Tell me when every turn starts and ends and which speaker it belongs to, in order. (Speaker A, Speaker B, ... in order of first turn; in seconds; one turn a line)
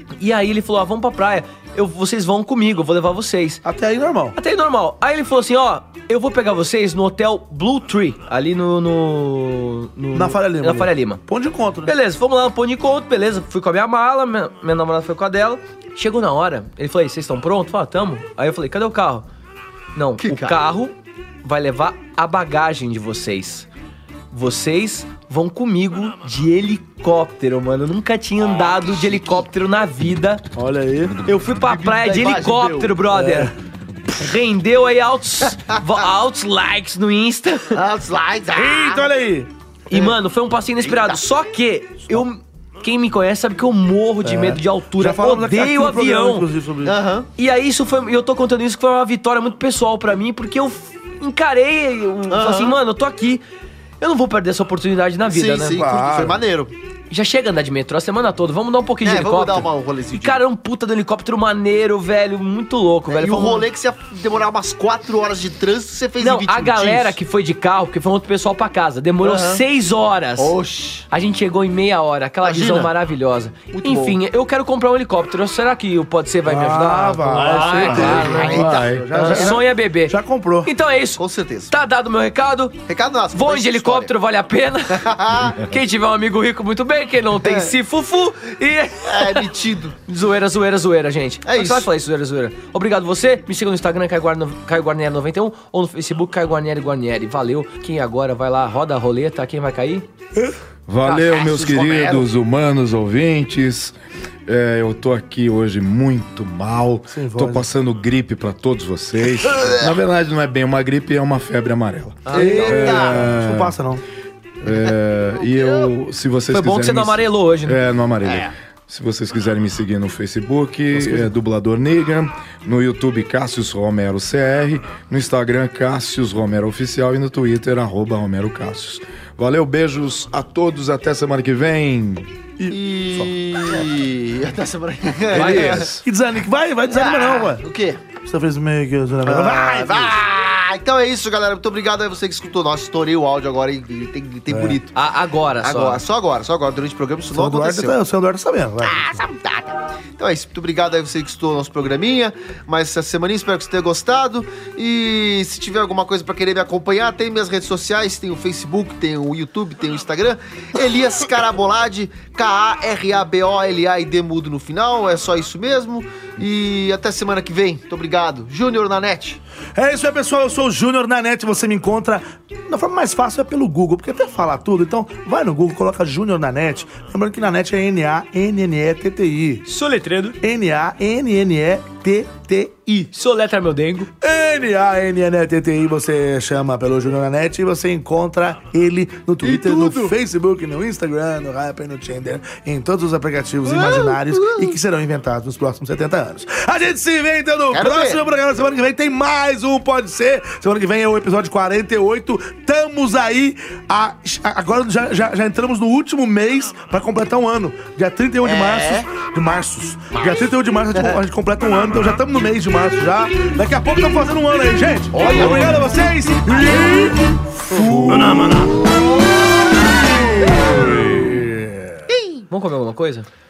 Speaker A: 0.2-3.6
Speaker B: 3.6-4.4
Speaker A: 4.4-11.2
Speaker B: 10.1-11.9
Speaker A: 11.9-19.2
Speaker A: 19.9-23.7
Speaker C: 20.2-20.6
Speaker A: 24.3-30.4
Speaker C: 28.5-29.4
Speaker B: 30.6-31.2
Speaker A: 31.2-33.5
Speaker C: 31.5-33.0
Speaker B: 33.1-33.5
Speaker A: 34.1-37.8
Speaker C: 37.7-39.1
Speaker B: 38.5-39.5
Speaker A: 39.9-46.5
Speaker C: 40.8-41.2
Speaker B: 44.2-47.0
Speaker C: 46.8-47.3
Speaker A: 47.4-53.4
Speaker C: 52.3-52.8
Speaker A: 54.0-55.9
Speaker C: 55.3-56.7
Speaker B: 55.7-56.4
Speaker A: 57.1-63.7
Speaker C: 59.0-60.4
Speaker C: 63.1-67.2
Speaker A: 66.2-70.5
Speaker C: 69.2-69.6
Speaker C: 70.4-71.1
Speaker A: 71.1-82.8
Speaker C: 72.4-72.9
Speaker C: 73.7-74.2
Speaker B: 76.5-80.7
Speaker D: 77.5-79.2
Speaker C: 77.9-79.5
Speaker C: 81.2-81.7
Speaker C: 82.9-84.1
Speaker A: 83.3-85.1
Speaker C: 84.9-85.6
Speaker A: 85.6-89.5
Speaker C: 87.4-87.7
Speaker C: 89.1-90.0
Speaker A: 90.1-100.0
Speaker C: 91.5-91.9
Speaker D: 100.9-104.0
Speaker C: 101.0-102.3
Speaker D: 104.5-113.7
Speaker B: 107.1-107.7
Speaker C: 109.5-110.0
Speaker A: 112.3-113.2
Speaker C: 112.3-113.3
Speaker B: 112.7-114.0
Speaker D: 114.6-132.3
Speaker C: 115.5-115.9
Speaker A: 116.5-117.8
Speaker C: 118.2-118.5
Speaker B: 121.0-121.2
Speaker B: 132.6-133.3
Speaker C: 132.7-135.9
Speaker D: 135.3-136.0
Speaker A: 135.3-135.9
Speaker B: 135.9-140.2
Speaker C: 136.9-138.1
Speaker C: 139.2-144.9
Speaker B: 144.5-144.8
Speaker A: 144.9-146.0
Speaker C: 145.6-148.0
Speaker B: 147.3-149.2
Speaker C: 148.8-169.4
Speaker B: 169.8-179.6
Speaker A: 179.7-180.4
Speaker B: 180.4-183.1
Speaker A: 183.1-184.1
Speaker B: 184.2-218.7
Speaker C: 189.4-190.2
Speaker C: 193.6-194.8
Speaker C: 197.7-198.2
Speaker C: 208.4-209.1
Speaker C: 210.1-211.2
Speaker C: 215.1-215.9
Speaker C: 216.5-216.9
Speaker C: 217.7-219.3
Speaker B: 220.5-221.6
Speaker C: 222.1-222.4
Speaker A: 222.5-223.3